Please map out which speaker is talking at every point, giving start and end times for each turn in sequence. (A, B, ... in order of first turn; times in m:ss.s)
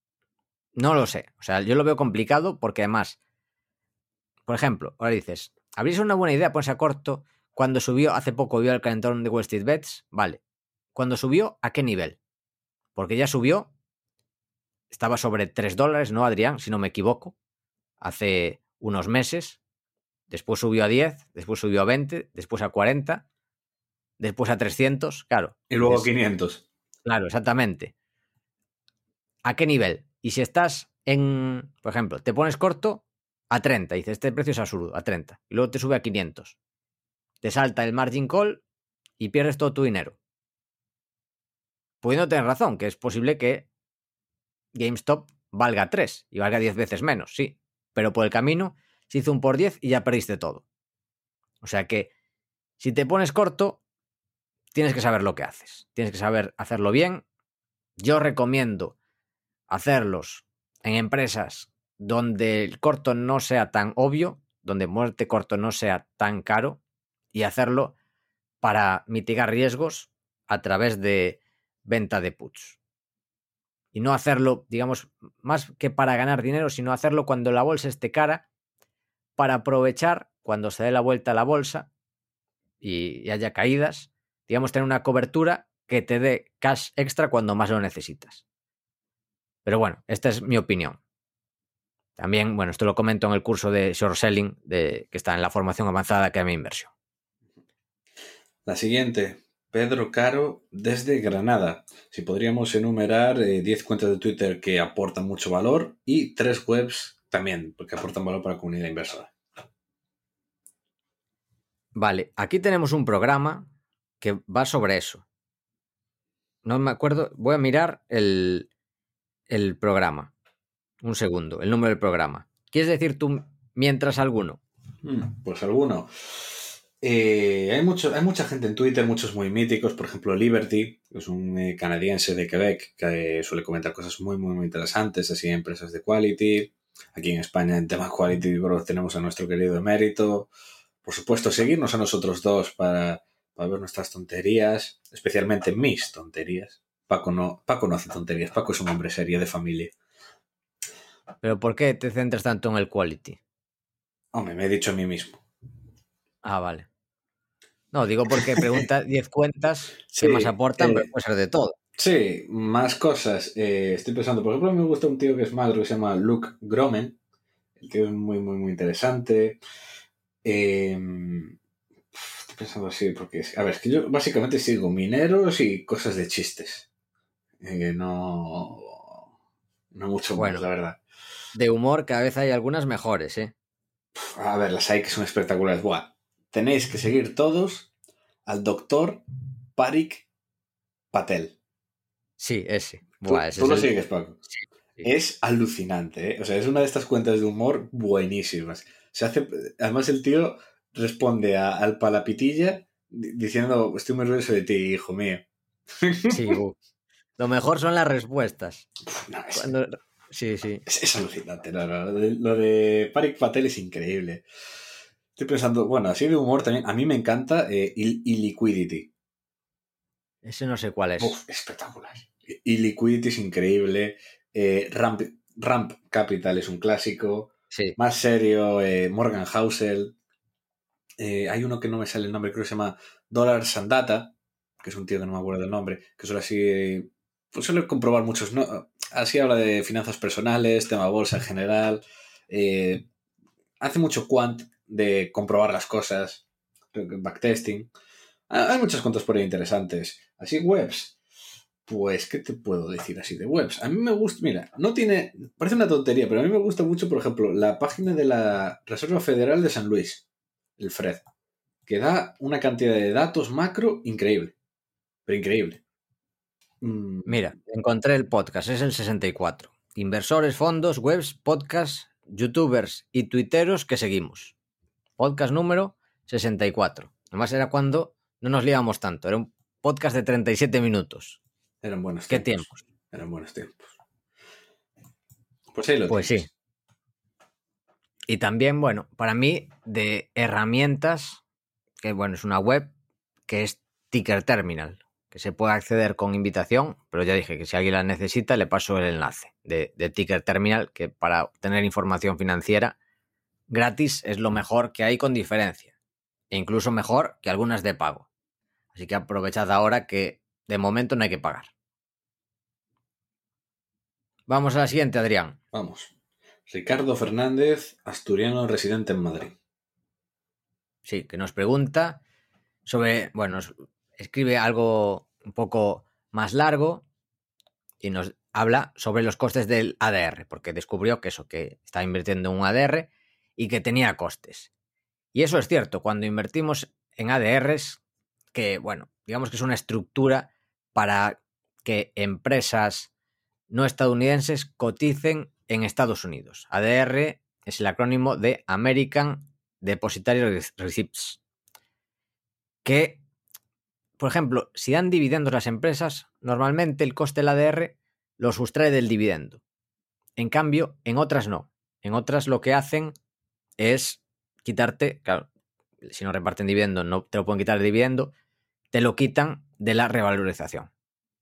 0:00.8-0:03.2 A
0:04.5-0:10.4 A
0:11.0-0:12.2 A
0:13.0-0:13.7 A
0:14.9-0:17.4 A
0:18.0-0:19.6 A
0:20.3-0:23.2 A
0:24.2-0:26.1 A
0:25.7-0:26.6 B
0:27.0-0:27.9 A
0:29.4-0:36.6 A
0:37.4-0:38.6 A
0:39.2-0:40.2 A
0:42.0-0:43.7 A
0:44.7-0:50.6 A
0:51.6-0:52.1 A
0:52.8-0:53.8 A
0:54.7-0:57.2 A
0:58.0-0:59.0 A
0:59.7-1:06.8 A
1:07.3-1:08.0 A
1:08.6-1:12.8 A
1:13.9-1:18.5 A
1:19.4-1:21.9 A
1:22.8-1:28.4 A
1:29.6-1:31.0 A
1:32.2-1:36.9 A
1:38.6-1:49.3 B
1:52.0-1:53.7 A
1:54.2-1:55.2 A
1:56.6-1:58.7 A
1:59.5-2:00.3 A
2:01.0-2:04.6 A
2:05.0-2:20.5 B
2:21.0-2:30.0 B
2:31.4-2:33.4 A
2:34.3-2:35.4 B
2:36.4-2:36.9 A
2:37.9-2:41.8 A
2:38.4-2:38.8 B
2:40.1-2:41.1 B
2:42.0-2:47.2 B
2:47.8-2:49.6 B
2:50.4-2:51.6 B
2:52.1-2:56.9 B
2:57.6-2:59.2 B
2:59.9-3:01.0 B
3:00.4-3:00.7 A
3:01.5-3:03.5 A
3:04.2-3:07.9 B
3:08.5-3:09.2 B
3:09.8-3:10.3 B
3:11.1-3:11.6 B
3:12.4-3:13.9 A
3:13.2-3:14.4 B
3:15.0-3:25.5 B
3:26.0-3:26.6 B
3:26.3-3:26.8 A
3:27.4-3:28.9 A
3:29.1-3:29.8 B
3:29.5-3:30.8 A
3:30.9-3:34.4 B
3:35.4-3:39.1 B
3:40.4-3:41.4 A
3:41.2-3:50.2 B
3:51.2-4:03.1 B
4:03.8-4:07.9 B
4:08.5-4:11.2 B
4:11.9-4:20.2 B
4:20.8-4:21.3 B
4:21.9-4:24.6 B
4:25.3-4:25.8 B
4:26.8-4:27.4 B
4:27.3-4:34.5 A
4:35.2-4:41.4 A
4:41.8-4:43.9 B
4:42.3-4:42.8 A
4:45.7-4:46.5 B
4:46.1-4:46.5 A
4:48.3-4:51.4 A
4:52.0-4:52.9 A
4:53.5-5:03.0 A
5:03.7-5:05.9 A
5:06.5-5:08.3 A
5:08.9-5:11.7 A
5:14.5-5:15.6 A
5:15.7-5:16.1 B
5:16.7-5:19.6 B
5:21.0-5:22.2 A
5:22.9-5:27.0 A
5:28.0-5:34.7 A
5:35.3-5:38.0 A
5:38.5-5:43.1 A
5:43.7-5:51.4 A
5:52.8-5:53.2 A
5:54.2-5:59.6 A
6:00.4-6:03.1 A
6:03.8-6:05.5 A
6:06.0-6:08.3 A
6:08.9-6:10.9 A